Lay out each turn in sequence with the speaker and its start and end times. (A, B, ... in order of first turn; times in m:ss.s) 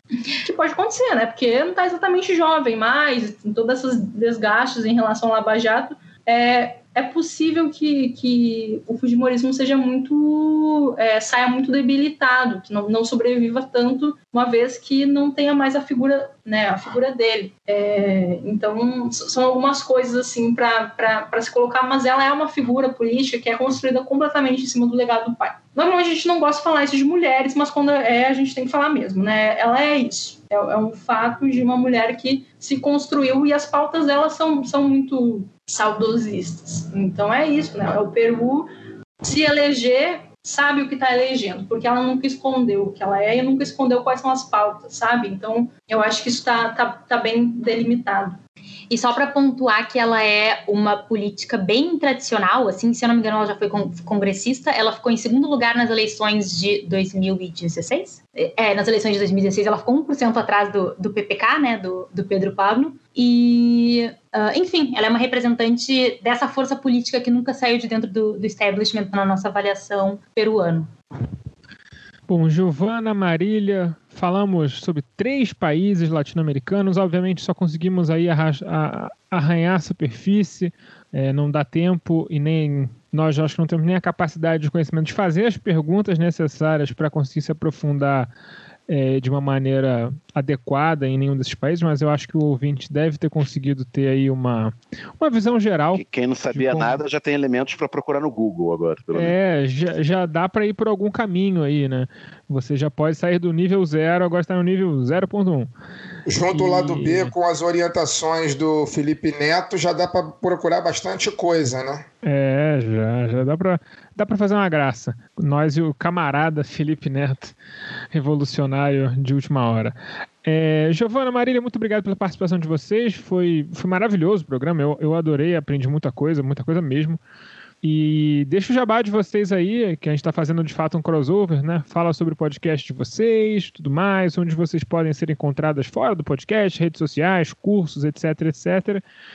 0:00.4-0:38.7 A
0:39.2-0:48.4 A
0:48.9-1:10.9 B
1:12.3-1:28.3 C
1:28.9-1:37.0 C
1:35.9-1:39.3 D
1:39.1-1:45.7 C
1:46.2-1:52.0 E
1:46.5-1:47.3 C
1:52.2-1:57.6 C
1:58.1-2:07.2 C
2:07.8-2:19.0 C